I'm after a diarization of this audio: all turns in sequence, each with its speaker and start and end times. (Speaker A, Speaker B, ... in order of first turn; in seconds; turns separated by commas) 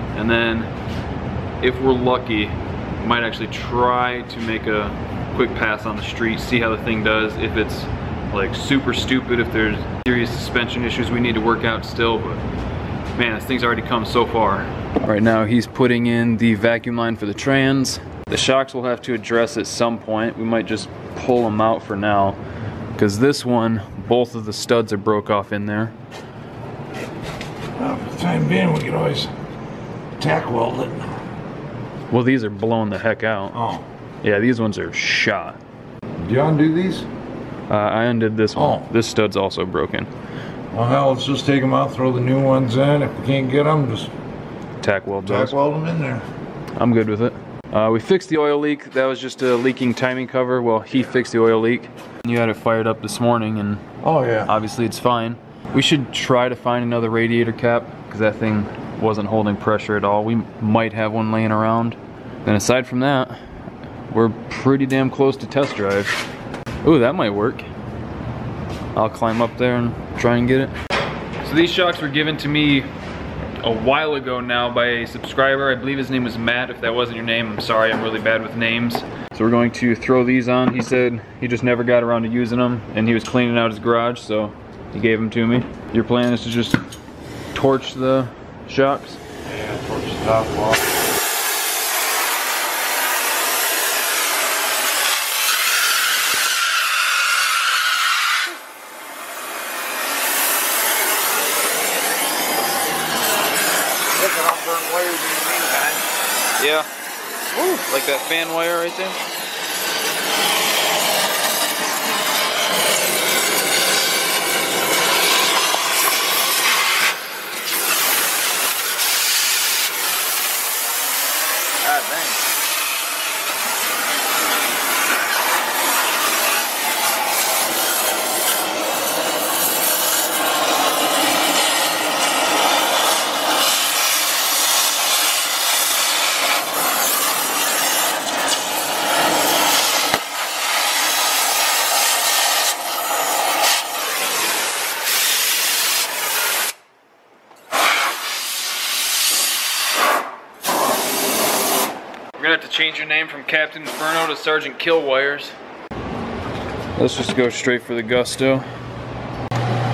Speaker A: 0.1-0.7, Speaker A: 1.6-12.4, Speaker A: 13.1-22.4, Speaker A: 22.9-25.9, Speaker B: 27.8-29.3, Speaker B: 30.2-31.1, Speaker A: 32.1-33.5, Speaker B: 33.5-33.9, Speaker A: 34.2-35.6, Speaker B: 36.2-37.1, Speaker A: 37.7-40.1, Speaker B: 38.5-38.9, Speaker B: 40.7-44.1, Speaker A: 44.8-45.5, Speaker B: 45.2-46.3, Speaker A: 46.8-53.8, Speaker B: 54.0-54.5, Speaker A: 54.4-63.4, Speaker A: 64.1-66.2, Speaker A: 66.8-67.7, Speaker A: 68.9-70.7, Speaker A: 71.4-72.9, Speaker A: 73.6-86.8, Speaker A: 87.5-89.2, Speaker B: 89.5-90.8, Speaker B: 104.2-106.1, Speaker A: 106.6-106.9, Speaker A: 107.5-109.2, Speaker A: 121.8-122.4, Speaker A: 152.4-155.6, Speaker A: 156.9-158.7